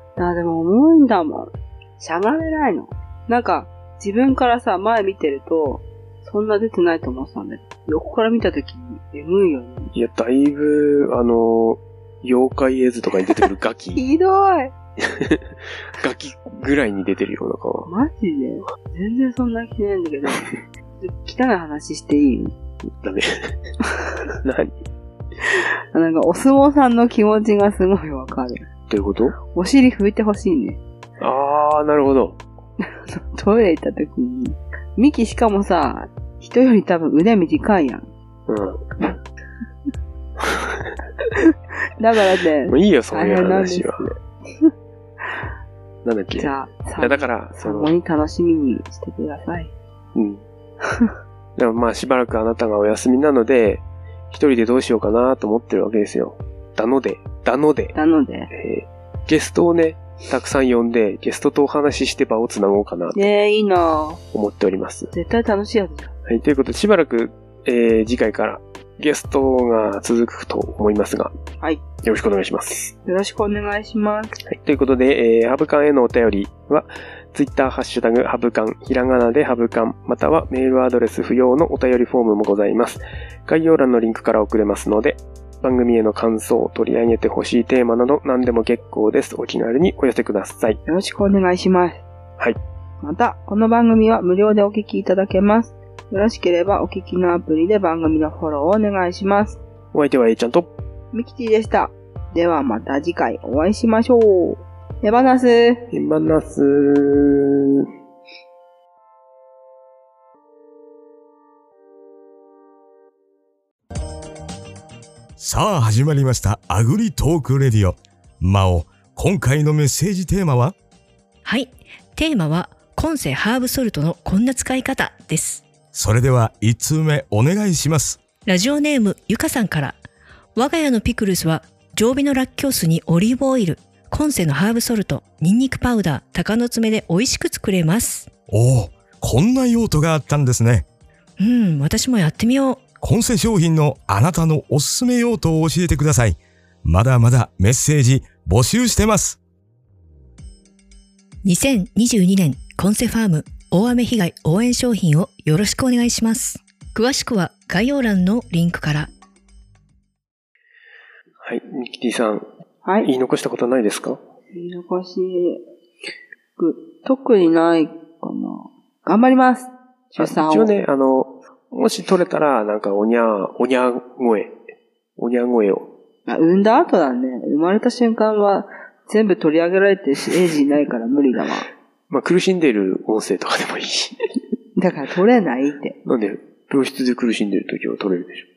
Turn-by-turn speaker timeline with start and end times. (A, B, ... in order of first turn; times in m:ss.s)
0:00.2-0:09.9 A
0:09.9-0:14.0 B
0:14.0-0:14.7 A
0:15.0-0:17.9 B
0:17.9-0:20.5 A
0:21.0-0:22.5 A
0:23.0-0:23.5 B
0:24.4-0:24.8 B
0:25.4-0:28.7 A
0:28.9-0:29.4 B
0:29.5-0:30.8 A
0:31.2-0:32.4 B
0:32.8-0:38.1 A
0:38.5-0:38.8 B
0:40.4-0:40.9 B
0:42.0-0:44.7 A
0:42.7-0:44.1 B
0:46.0-0:47.9 B
0:46.4-0:49.7 A
0:50.2-0:50.4 B
0:50.8-0:51.1 A
0:51.6-0:57.9 B
0:57.9-0:58.5 A
0:58.5-1:03.2 B
1:03.1-1:04.2 A
1:04.3-1:05.1 B
1:05.1-1:06.1 A
1:06.3-1:11.3 B
1:12.0-1:12.9 B
1:13.0-1:14.4 A
1:14.5-1:30.8 B
1:30.9-1:32.0 A
1:33.0-1:39.6 A
1:39.9-1:40.7 B
1:41.1-1:45.9 A
1:45.9-1:47.9 B
1:55.4-2:00.8 C
2:01.4-2:05.7 D
2:05.9-2:08.2 C
2:08.4-2:10.0 D
2:10.6-2:18.3 D
2:18.5-2:20.9 C
2:21.4-2:22.9 D
2:23.0-2:29.4 C
2:31.4-2:39.1 D
2:41.4-2:42.5 B
2:42.8-2:43.1 A
2:43.0-2:44.2 B
2:44.5-2:45.6 A
2:46.6-2:50.7 A
2:50.2-2:54.6 B
2:55.2-2:55.9 B
2:56.3-3:01.7 A
3:02.1-3:04.2 B
3:04.8-3:06.0 A
3:06.0-3:08.4 B